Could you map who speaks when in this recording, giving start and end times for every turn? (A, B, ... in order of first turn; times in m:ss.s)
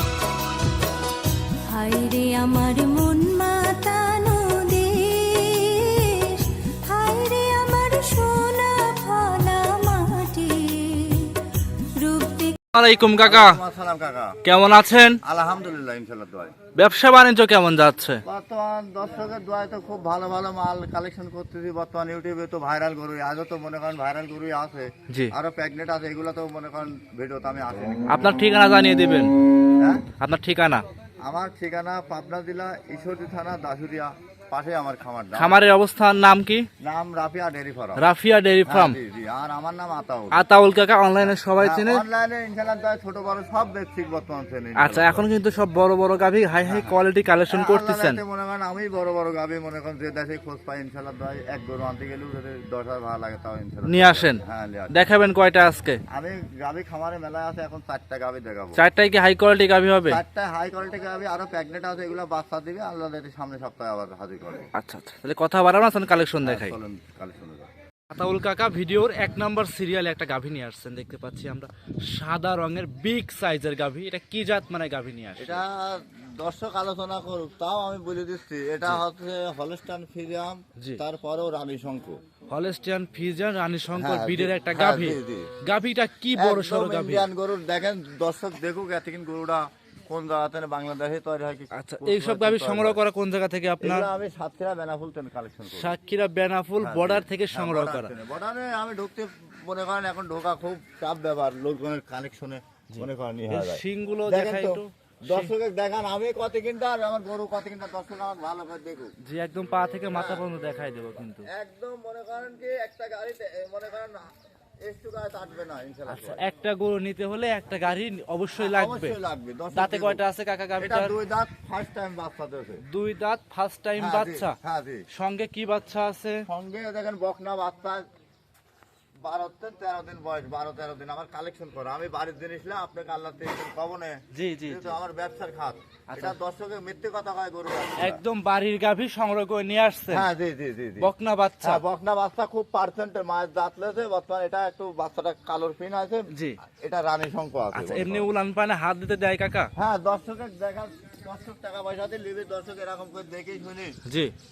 0:01.6-0:12.6 A
0:12.7-0:13.6 B
0:13.2-0:14.4 C
0:14.4-0:15.2 B
0:15.2-0:16.5 C
0:16.7-0:18.2 B
0:18.2-0:28.3 C
0:25.1-0:25.3 B
0:28.1-0:29.3 B
0:29.8-0:30.1 C
0:30.2-0:30.8 B
0:31.2-0:35.5 C
0:35.4-0:36.7 B
0:36.8-0:38.0 C
0:38.0-0:39.0 B
0:38.7-0:40.4 C
0:40.3-0:42.0 B
0:41.6-0:45.2 C
0:44.7-0:48.2 B
0:46.6-0:46.9 C
0:47.5-0:55.0 C
0:53.8-0:56.0 B
0:56.1-0:58.8 C
0:58.8-1:00.2 B
1:00.1-1:04.7 C
1:04.7-1:06.8 B
1:06.4-1:07.7 C
1:08.1-1:15.6 B
1:15.4-1:22.2 C
1:22.5-1:27.3 B
1:23.9-1:25.5 C
1:26.4-1:33.0 C
1:31.7-1:34.1 B
1:33.8-1:35.9 C
1:35.7-1:38.1 B
1:36.8-1:49.1 C
1:42.9-1:45.5 B
1:49.2-1:51.5 B
1:50.1-1:50.4 C
1:51.4-1:54.3 C
1:54.8-1:56.4 C
1:56.1-1:59.2 B
1:58.6-2:00.2 C
1:59.7-2:01.1 B
2:00.8-2:02.8 C
2:02.8-2:04.6 B
2:04.0-2:05.0 C
2:05.1-2:06.4 B
2:06.4-2:08.0 C
2:09.2-2:18.2 C
2:14.3-2:14.9 B
2:16.1-2:16.4 B
2:18.0-2:20.3 B
2:20.1-2:21.1 C
2:21.0-2:21.8 B
2:21.6-2:28.3 C
2:26.3-2:26.6 B
2:27.7-2:29.7 B
2:29.8-2:34.0 C
2:34.0-2:34.3 B